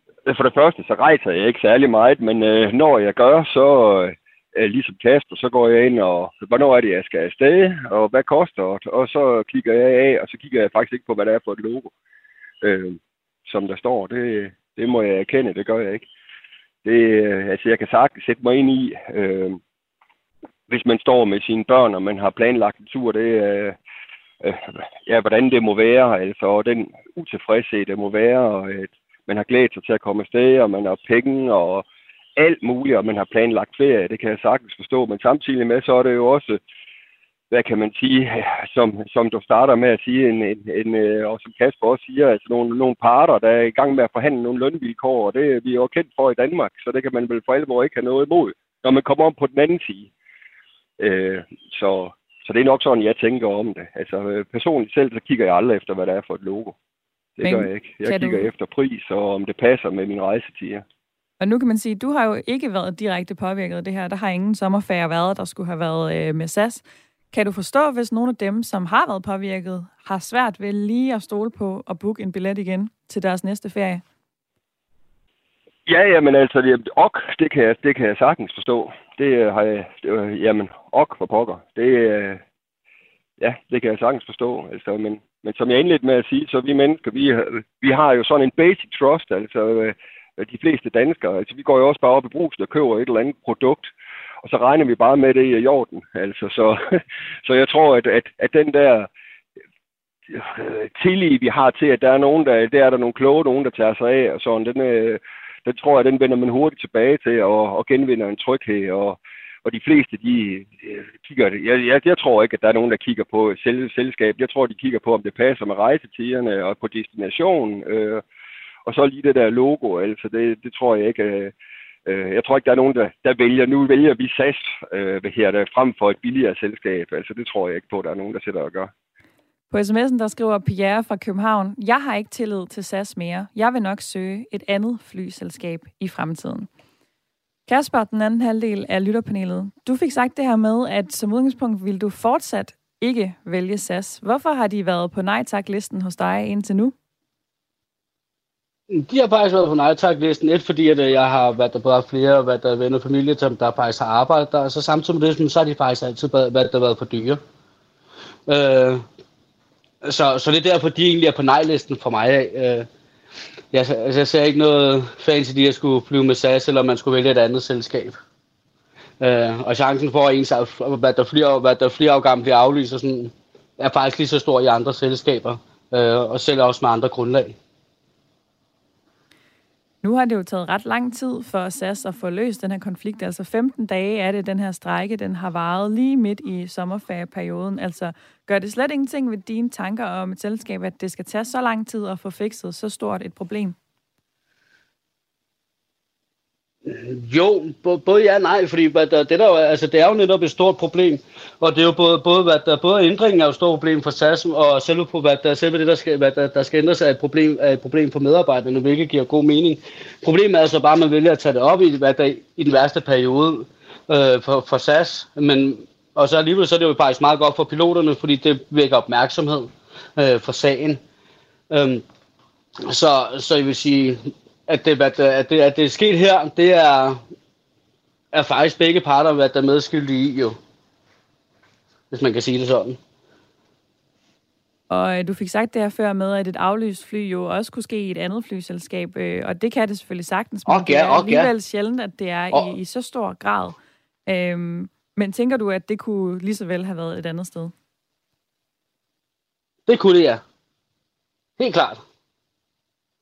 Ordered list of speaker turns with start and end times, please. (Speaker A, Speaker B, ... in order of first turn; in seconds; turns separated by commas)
Speaker A: 0.3-11.9, Speaker A: 12.6-16.1, Speaker A: 16.8-19.6, Speaker A: 20.7-23.8, Speaker A: 24.4-31.9, Speaker A: 32.4-36.6, Speaker A: 37.5-50.1, Speaker A: 51.0-56.8, Speaker A: 57.4-60.9, Speaker B: 57.4-58.5, Speaker B: 61.4-74.0, Speaker A: 75.9-82.4, Speaker A: 83.4-93.9, Speaker A: 94.4-96.8, Speaker A: 97.5-99.1, Speaker A: 100.3-118.2, Speaker A: 118.8-121.5, Speaker A: 122.1-128.9, Speaker B: 129.7-136.7, Speaker B: 137.7-146.9, Speaker C: 148.9-157.4, Speaker C: 158.5-159.1, Speaker C: 160.0-162.9, Speaker C: 163.7-168.2, Speaker C: 169.2-177.6, Speaker B: 180.0-193.8, Speaker C: 196.9-221.0, Speaker C: 221.7-222.1, Speaker C: 222.9-227.2, Speaker C: 228.3-230.6, Speaker C: 232.1-233.0, Speaker B: 234.9-243.8, Speaker C: 240.7-241.5, Speaker B: 244.3-247.7, Speaker C: 249.9-250.4, Speaker C: 251.6-252.0